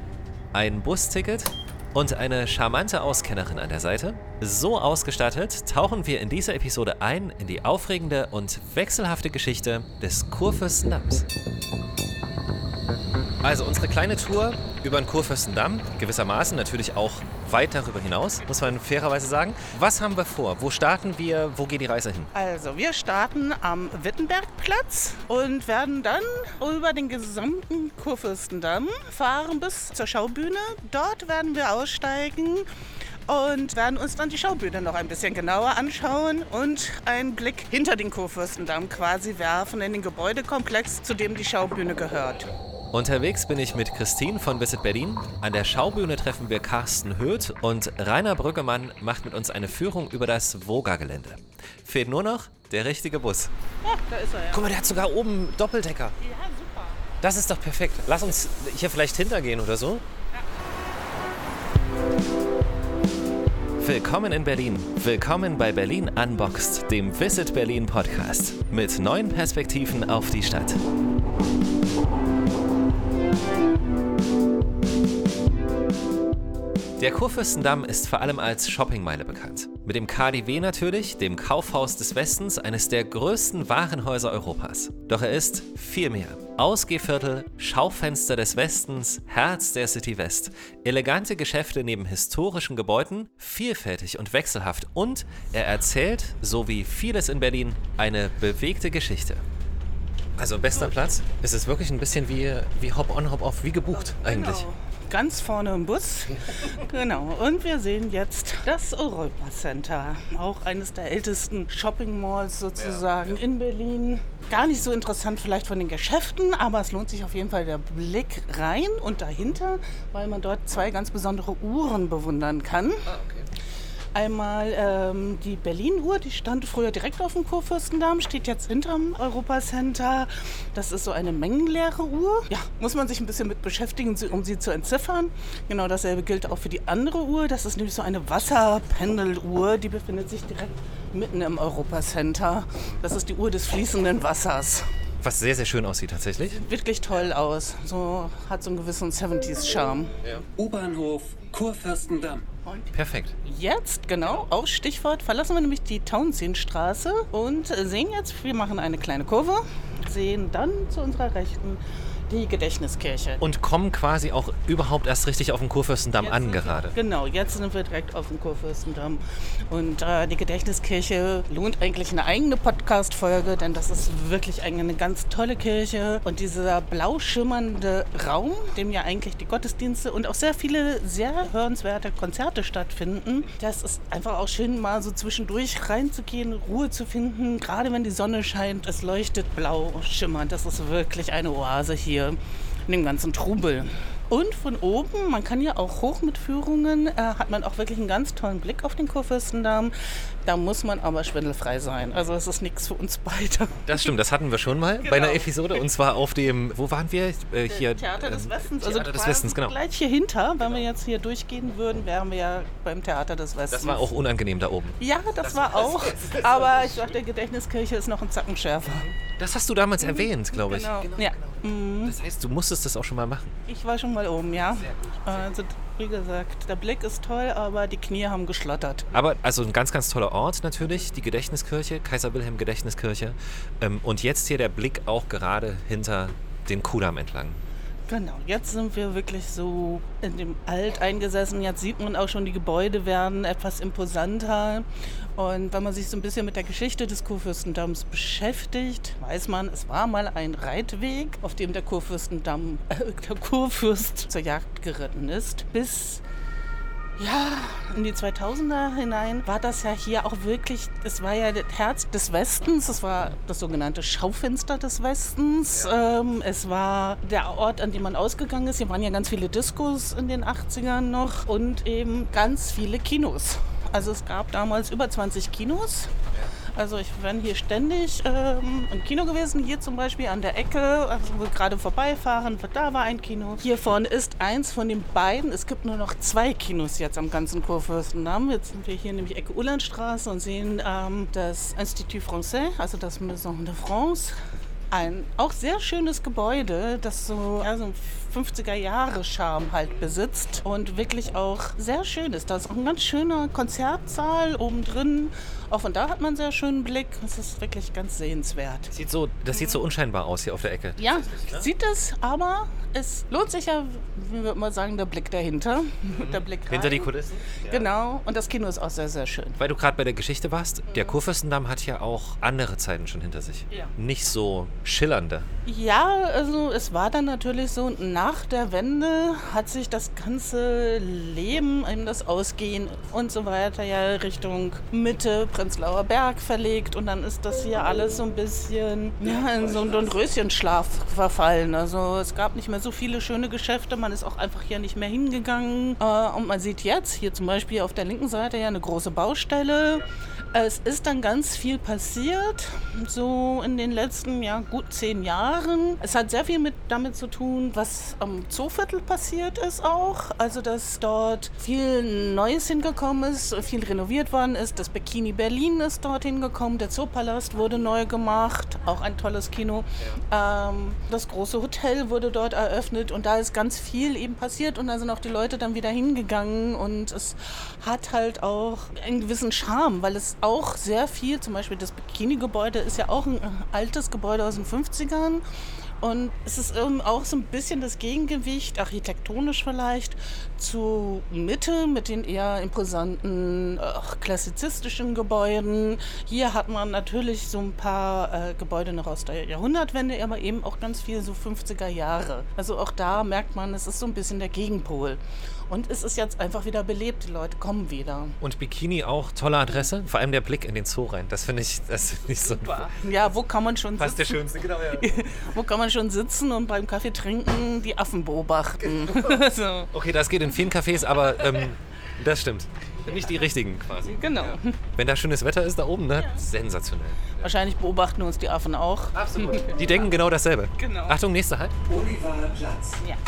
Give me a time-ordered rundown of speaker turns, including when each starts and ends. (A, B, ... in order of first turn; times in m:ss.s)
0:00.5-0:11.3 A
0:13.4-0:22.3 A
0:22.3-0:32.7 B
0:33.3-0:42.5 B
0:42.9-0:53.5 A
0:53.8-0:54.7 B
0:54.5-0:56.2 A
0:56.2-0:57.0 B
0:57.2-1:00.0 A
1:03.8-1:10.8 A
1:17.0-1:39.4 A
1:40.4-1:44.7 A
1:43.9-2:03.0 B
2:03.1-2:03.4 A
2:04.1-2:24.8 B
2:25.2-2:26.6 A
2:26.5-2:30.1 B
2:30.6-2:32.4 C
2:32.9-2:33.3 A
2:33.4-2:43.4 B
2:43.4-2:46.9 A
2:46.2-3:19.9 B
3:20.4-3:24.1 B
3:23.8-3:29.7 A
3:25.0-3:25.5 B
3:27.7-3:34.0 B
3:33.7-3:36.5 A
3:35.0-3:39.1 B
3:39.4-3:43.5 A
3:40.0-3:42.2 B
3:43.7-3:49.1 B
3:49.1-3:57.6 A
3:58.1-4:16.2 B
4:17.2-4:36.1 B
4:36.7-4:54.4 B
4:54.9-5:08.9 B
5:08.9-5:11.7 A
5:09.5-5:09.8 B
5:11.0-5:17.1 B
5:16.1-5:17.9 A
5:17.6-5:19.6 B
5:19.6-5:25.5 A
5:20.9-5:21.2 B
5:25.6-6:25.4 B
6:26.0-6:48.4 B
6:48.4-6:52.9 A
6:52.6-6:59.9 B
6:54.0-6:55.2 A
6:58.9-6:59.4 A
6:59.9-7:07.4 A
7:04.0-7:04.8 B
7:06.2-7:06.4 B
7:07.4-7:10.0 B
7:09.1-7:11.8 A
7:10.8-7:11.2 B
7:11.9-7:13.0 C